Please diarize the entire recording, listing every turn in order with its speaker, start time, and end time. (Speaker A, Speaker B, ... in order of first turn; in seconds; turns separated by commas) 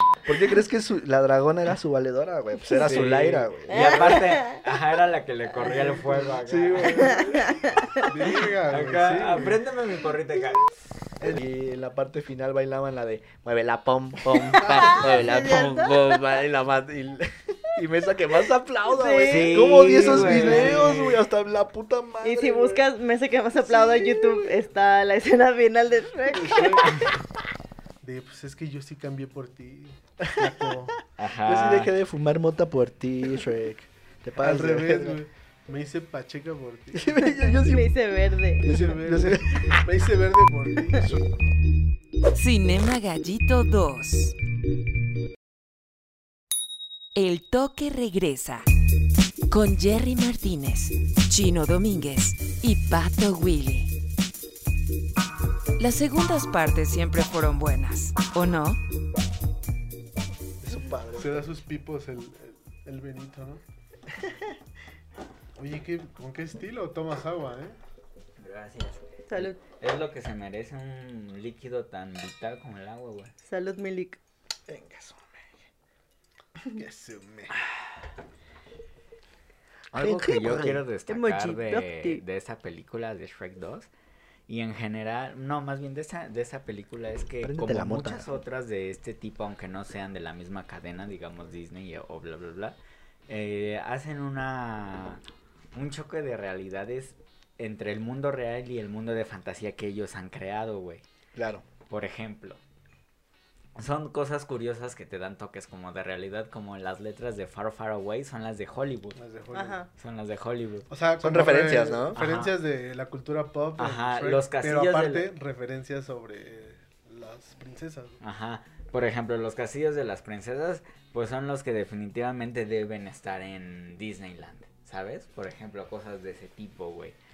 Speaker A: 0.2-4.1, Speaker B: 2.7-7.3, Speaker C: 3.7-4.6, Speaker D: 5.7-6.2, Speaker A: 6.2-7.6, Speaker C: 7.0-8.0, Speaker D: 8.0-9.6, Speaker B: 8.7-10.7, Speaker A: 11.2-22.8, Speaker C: 14.3-16.2, Speaker D: 14.6-15.1, Speaker C: 18.9-20.7, Speaker B: 19.2-21.2, Speaker D: 20.0-20.8, Speaker C: 22.2-27.1, Speaker A: 23.6-24.5, Speaker D: 26.3-27.2, Speaker D: 28.0-30.9, Speaker A: 30.2-30.9, Speaker B: 31.2-31.9, Speaker A: 31.4-35.2, Speaker D: 34.4-37.3, Speaker A: 36.9-37.9, Speaker C: 37.2-38.8, Speaker A: 38.6-39.8, Speaker D: 38.7-41.2, Speaker A: 41.0-41.2, Speaker E: 42.3-44.3, Speaker E: 47.1-48.6, Speaker E: 49.5-53.9, Speaker E: 55.8-58.8, Speaker A: 60.6-61.5, Speaker D: 61.2-63.6, Speaker D: 65.6-67.8, Speaker B: 68.4-73.3, Speaker C: 69.3-69.6, Speaker C: 73.4-74.2, Speaker A: 74.7-75.4, Speaker D: 76.7-77.5, Speaker A: 79.9-80.8, Speaker B: 79.9-83.9, Speaker C: 81.1-82.2, Speaker B: 84.5-92.8, Speaker A: 87.4-88.3, Speaker B: 93.3-95.2, Speaker B: 95.7-101.0, Speaker A: 101.3-101.7, Speaker B: 101.9-102.6, Speaker B: 103.8-109.2, Speaker D: 109.2-109.8, Speaker C: 109.5-109.9, Speaker B: 110.0-110.9, Speaker D: 110.9-118.2, Speaker A: 111.2-112.2, Speaker B: 112.2-112.5, Speaker B: 113.8-115.3, Speaker B: 118.2-127.1